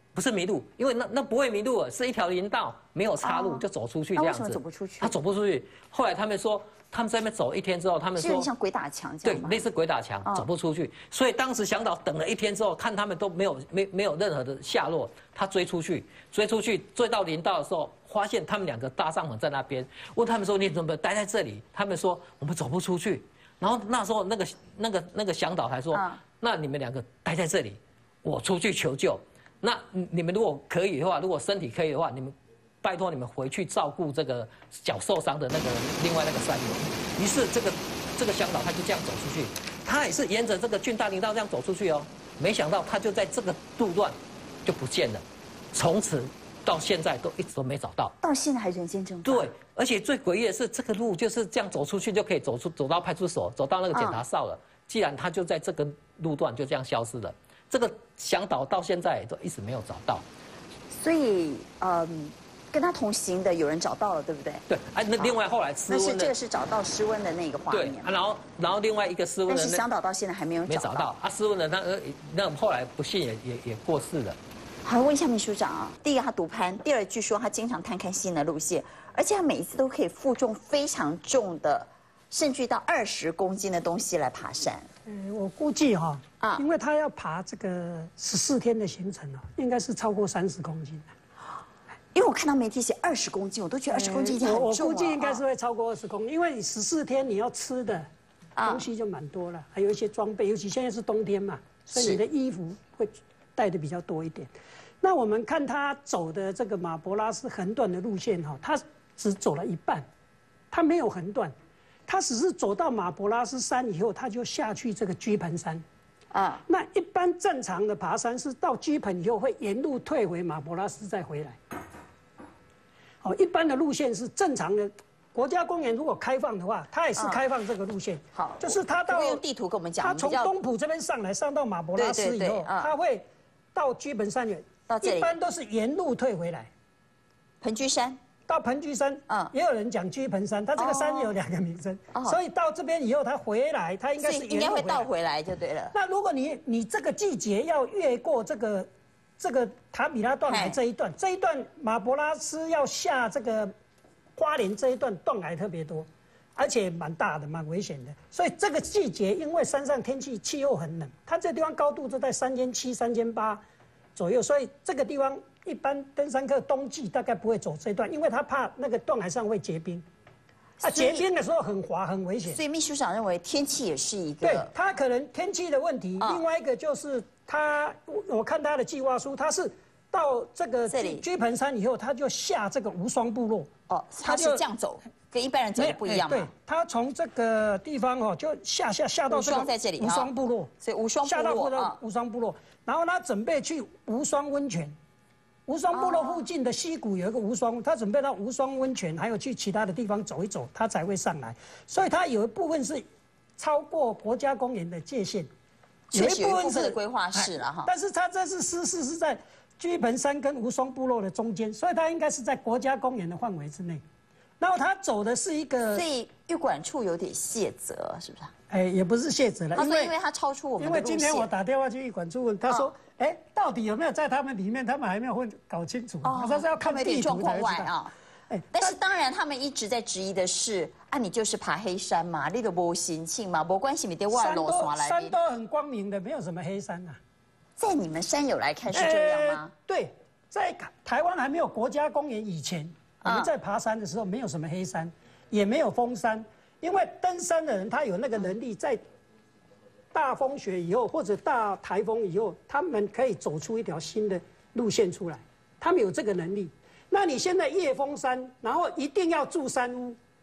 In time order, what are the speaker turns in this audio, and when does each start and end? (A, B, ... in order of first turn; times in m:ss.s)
0:00.1-0:08.5 A
0:03.2-0:03.6 B
0:04.2-0:05.2 B
0:08.2-0:09.6 B
0:09.2-0:48.1 A
0:25.9-0:26.2 B
0:48.2-0:49.5 B
0:49.2-1:00.2 A
0:53.9-0:54.2 B
1:00.9-1:04.6 B
1:04.7-1:06.3 A
1:05.9-1:08.1 B
1:07.7-1:09.8 A
1:09.5-1:11.1 B
1:10.7-1:14.4 A
1:14.8-1:24.9 B
1:25.1-1:31.1 C
1:32.1-1:35.4 B
1:33.9-1:38.1 C
1:38.6-1:38.9 B
1:38.6-1:50.1 C
1:41.9-1:42.2 B
1:50.7-1:51.5 C
1:52.1-1:55.8 C
1:56.3-1:56.6 B
1:56.7-2:01.6 C
2:03.2-2:09.4 C
2:07.2-2:07.4 B
2:08.3-2:10.5 B
2:10.0-2:16.7 C
2:11.9-2:12.9 B
2:14.9-2:15.3 B
2:17.6-2:18.2 B
2:18.5-2:25.1 C
2:20.8-2:21.3 B
2:22.1-2:22.4 B
2:24.2-2:25.9 B
2:25.9-2:28.9 C
2:29.4-2:33.7 C
2:30.5-2:30.8 B
2:34.4-2:43.6 C
2:44.2-2:50.0 C
2:50.8-2:51.3 B
2:50.8-2:52.6 C
2:52.4-2:54.7 B
2:54.4-3:03.7 C
2:56.2-2:56.4 B
3:00.9-3:01.3 B
3:03.9-3:06.5 B
3:04.2-3:04.6 C
3:05.8-3:10.7 C
3:09.3-3:12.0 B
3:11.2-3:15.0 C
3:15.7-3:23.0 C
3:15.9-3:16.4 B
3:23.6-3:25.5 C
3:26.1-3:27.9 B
3:26.1-3:34.0 C
3:34.6-3:36.0 C
3:35.9-3:38.5 B
3:38.7-3:40.1 C
3:39.7-3:41.5 B
3:40.8-3:47.9 C
3:46.2-3:48.1 B
3:48.5-3:49.0 C
3:48.7-3:55.4 B
3:54.3-3:57.2 C
3:57.8-3:59.7 B
3:58.9-4:09.0 C
4:03.2-4:03.5 B
4:10.1-4:20.2 C